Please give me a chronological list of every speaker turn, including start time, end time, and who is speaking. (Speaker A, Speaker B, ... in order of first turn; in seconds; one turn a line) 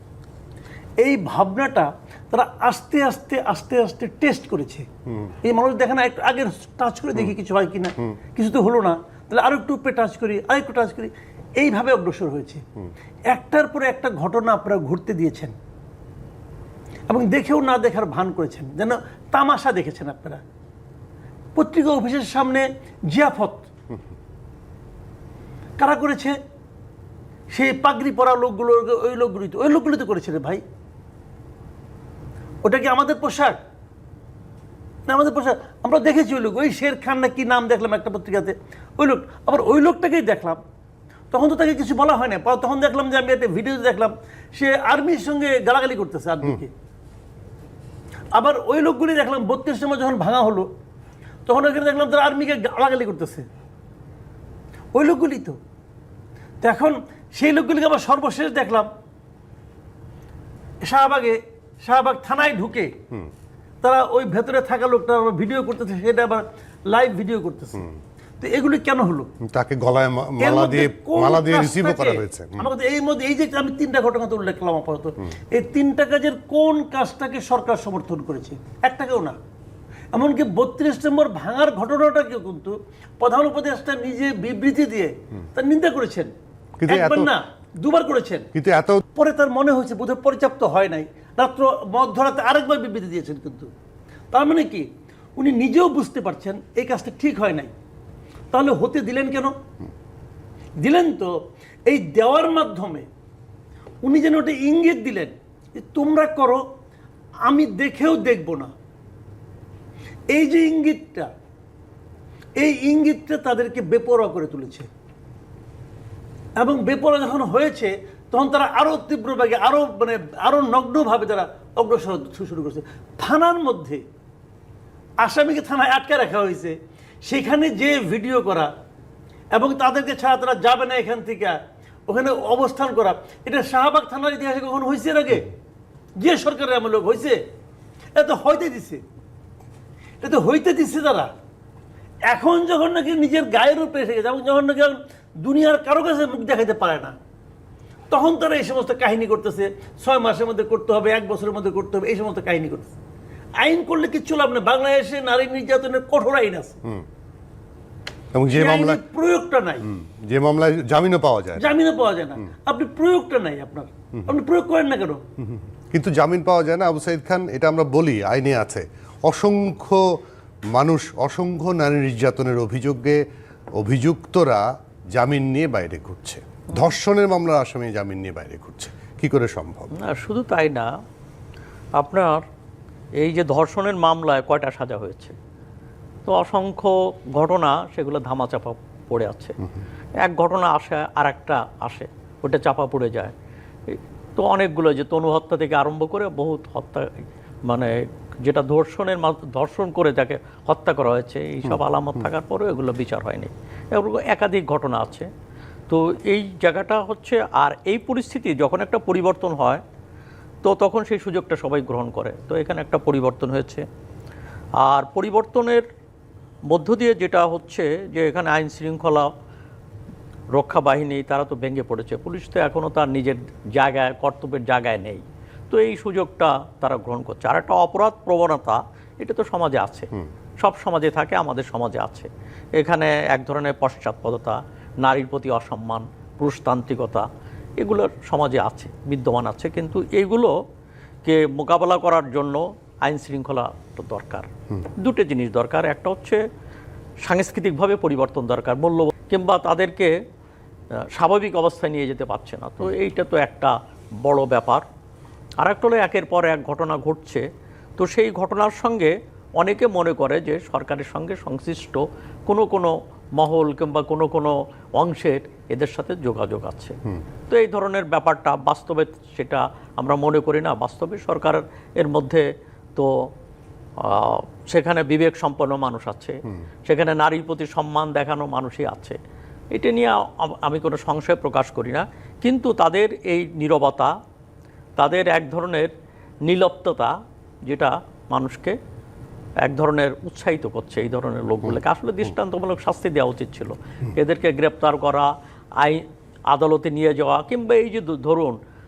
Speaker A: 1.0-4.8
Speaker A: 5.4-12.6
Speaker A: 13.3-15.5
Speaker A: 17.1-20.4
Speaker A: 21.6-23.7
Speaker A: 25.8-26.4
Speaker A: 27.5-30.6
Speaker A: 32.6-33.6
Speaker A: 35.1-40.6
Speaker A: 41.3-46.7
Speaker A: 48.3-50.7
Speaker A: 51.5-53.5
Speaker A: 54.9-55.6
Speaker A: 56.6-58.9
Speaker A: 60.8-62.9
Speaker A: 63.8-67.9
Speaker A: 68.4-69.3
Speaker B: 69.4-72.7
Speaker A: 70.4-79.3
Speaker A: 80.1-86.3
Speaker B: 86.8-87.3
Speaker A: 86.9-88.5
Speaker B: 88.5-89.0
Speaker A: 89.1-93.7
Speaker A: 94.3-94.8
Speaker A: 95.4-97.7
Speaker A: 98.5-99.5
Speaker A: 100.8-101.3
Speaker A: 101.9-103.1
Speaker A: 104.0-106.6
Speaker A: 107.5-108.7
Speaker A: 110.3-111.3
Speaker A: 112.6-114.9
Speaker A: 116.6-124.0
Speaker A: 125.2-128.7
Speaker A: 129.5-131.6
Speaker A: 132.1-135.5
Speaker A: 136.2-137.4
Speaker A: 138.2-139.0
Speaker A: 140.2-141.3
Speaker A: 142.3-147.1
Speaker A: 148.1-152.9
Speaker A: 153.6-156.8
Speaker B: 158.3-159.0
Speaker A: 158.5-159.8
Speaker B: 159.9-161.6
Speaker A: 161.6-165.2
Speaker B: 165.5-170.0
Speaker B: 170.7-173.2
Speaker B: 173.8-179.9
Speaker C: 180.0-180.9
Speaker C: 182.0-182.4
Speaker C: 183.2-185.3
Speaker C: 186.2-189.5
Speaker C: 190.2-193.3
Speaker C: 193.9-205.3
Speaker C: 205.9-209.8
Speaker C: 210.6-213.8
Speaker C: 214.8-215.8
Speaker C: 216.7-219.3
Speaker C: 220.6-230.1
Speaker C: 230.6-237.2
Speaker C: 237.8-240.5
Speaker C: 241.2-246.4
Speaker C: 247.2-250.1
Speaker C: 251.1-254.8
Speaker C: 255.6-257.4
Speaker C: 258.0-266.9
Speaker C: 267.5-272.4
Speaker C: 272.9-273.3
Speaker C: 274.0-279.2
Speaker C: 279.7-284.1
Speaker C: 285.0-285.9
Speaker C: 286.5-287.1
Speaker C: 287.7-288.8
Speaker C: 289.6-298.6